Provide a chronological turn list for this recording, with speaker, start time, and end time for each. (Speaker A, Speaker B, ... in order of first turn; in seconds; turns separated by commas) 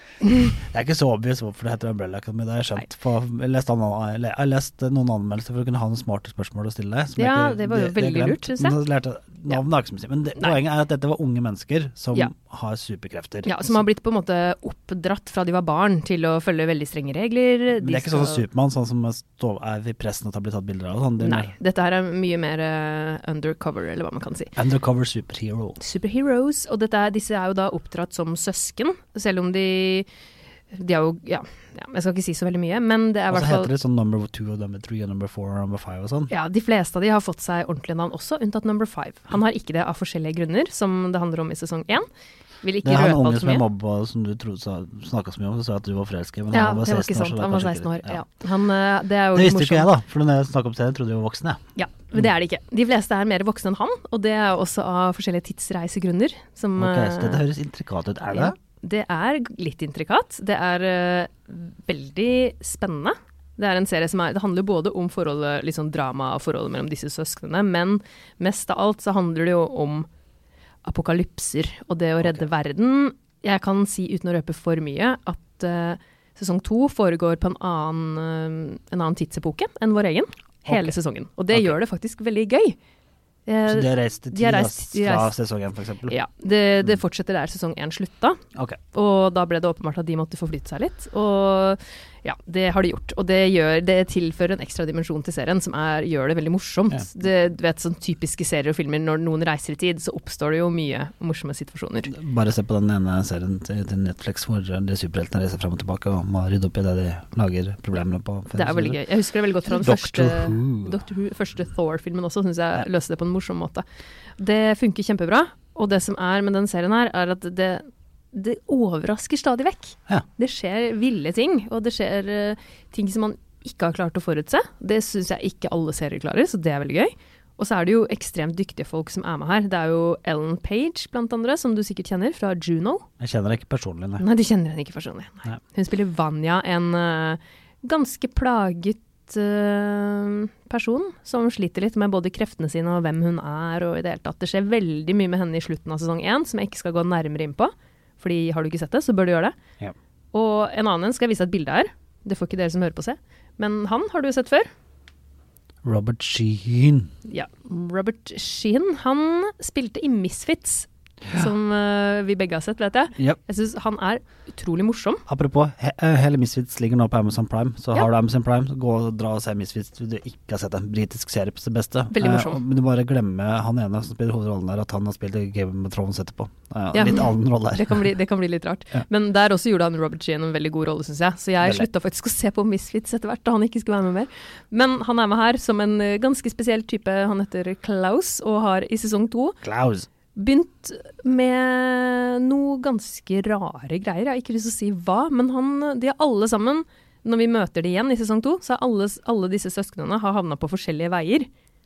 Speaker A: 0.2-0.5, Speaker B: 0.6-13.8, Speaker A: 7.2-8.8, Speaker A: 13.4-18.4, Speaker B: 17.8-21.5, Speaker A: 21.2-24.5, Speaker B: 24.6-25.8, Speaker A: 25.8-30.1, Speaker A: 30.7-33.7, Speaker B: 33.3-36.3, Speaker A: 36.3-42.1, Speaker A: 42.6-43.6, Speaker B: 42.8-48.2, Speaker A: 46.5-49.9, Speaker B: 49.3-51.6, Speaker A: 51.8-57.4, Speaker B: 56.8-58.5, Speaker A: 58.3-70.1, Speaker A: 70.8-82.8, Speaker B: 80.7-80.9, Speaker A: 83.5-85.3, Speaker B: 83.7-86.1, Speaker A: 86.1-88.4, Speaker B: 88.5-88.8, Speaker A: 88.9-102.1, Speaker B: 102.1-109.0, Speaker A: 108.5-113.8, Speaker B: 109.7-111.0, Speaker A: 114.4-133.1, Speaker B: 133.2-134.2, Speaker A: 134.2-149.5, Speaker A: 150.3-154.7, Speaker B: 155.8-157.1, Speaker A: 157.2-165.2, Speaker B: 165.3-178.1, Speaker A: 172.1-172.6, Speaker A: 176.9-189.6, Speaker B: 189.6-190.1, Speaker A: 190.3-201.5